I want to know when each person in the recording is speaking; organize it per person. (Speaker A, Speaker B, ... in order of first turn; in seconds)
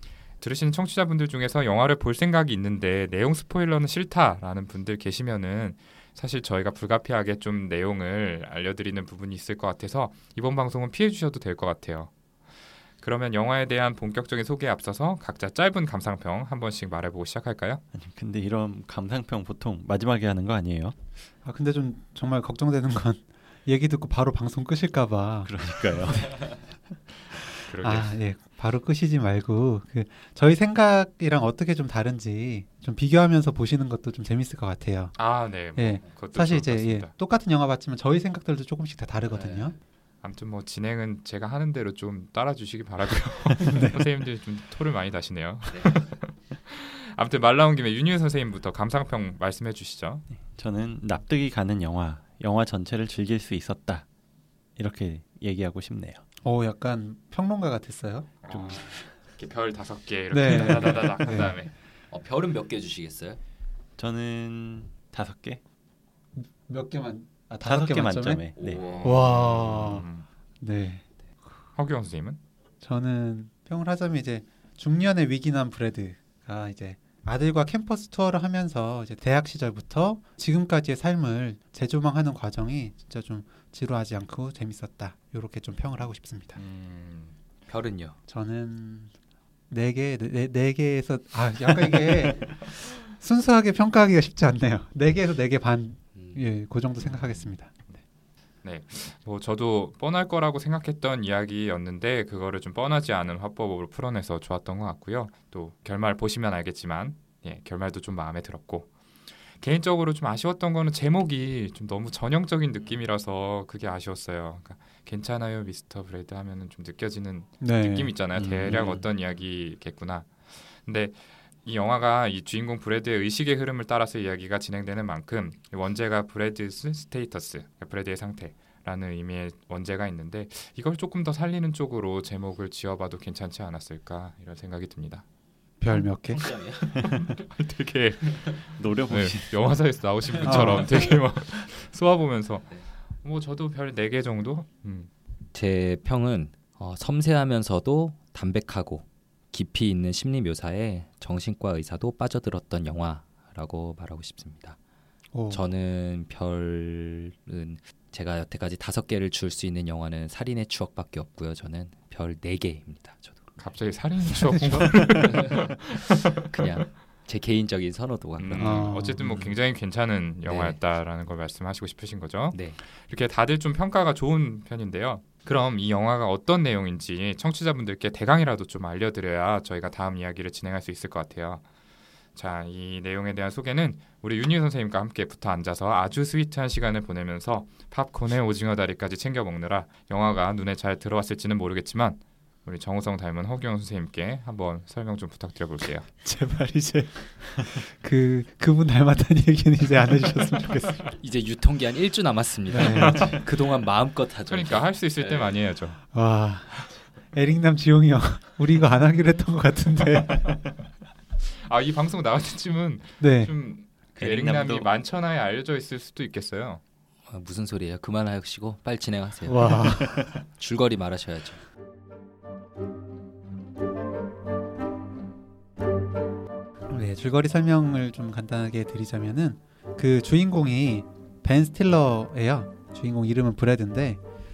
Speaker A: 0.4-12.1, 13.0-17.8, 27.6-28.2, 35.1-37.1, 40.2-50.3, 58.4-61.7, 69.0-70.2, 71.8-72.4, 86.5-87.3, 97.0-98.0, 98.6-108.9, 109.6-135.2, 137.3-145.1, 163.6-166.8, 168.4-181.6, 182.3-196.1, 202.8-203.4, 204.5-206.0, 211.4-216.8
Speaker B: 17.9-20.9, 25.4-26.6, 50.5-54.1, 54.8-56.2, 58.5-58.9, 64.0-65.6, 67.6-69.0, 118.3-119.0, 136.9-137.2, 138.8-139.6, 169.2-169.6, 214.2-214.9
Speaker C: 21.4-26.2, 27.8-35.1, 35.7-39.7, 43.6-44.0, 56.4-58.3, 60.3-61.5, 66.4-68.4, 69.0-70.1, 70.6-71.0, 72.8-86.6, 88.3-89.1, 89.7-97.7, 117.6-118.1, 135.8-136.6, 140.4-140.9, 155.3-155.6, 164.4-165.0, 168.6-169.2, 196.2-201.2, 202.7-203.3, 206.1-210.7, 213.2-213.5, 219.4-220.3, 226.9-234.2
Speaker D: 39.3-39.7, 45.7-46.0, 62.1-63.4, 68.6-69.3, 87.7-88.2, 96.1-96.4, 118.7-119.0, 136.3-137.0, 145.5-154.8, 155.5-163.6, 165.3-165.7, 166.4-168.9, 170.4-170.8, 172.5-172.8, 201.2-205.6, 217.3-221.6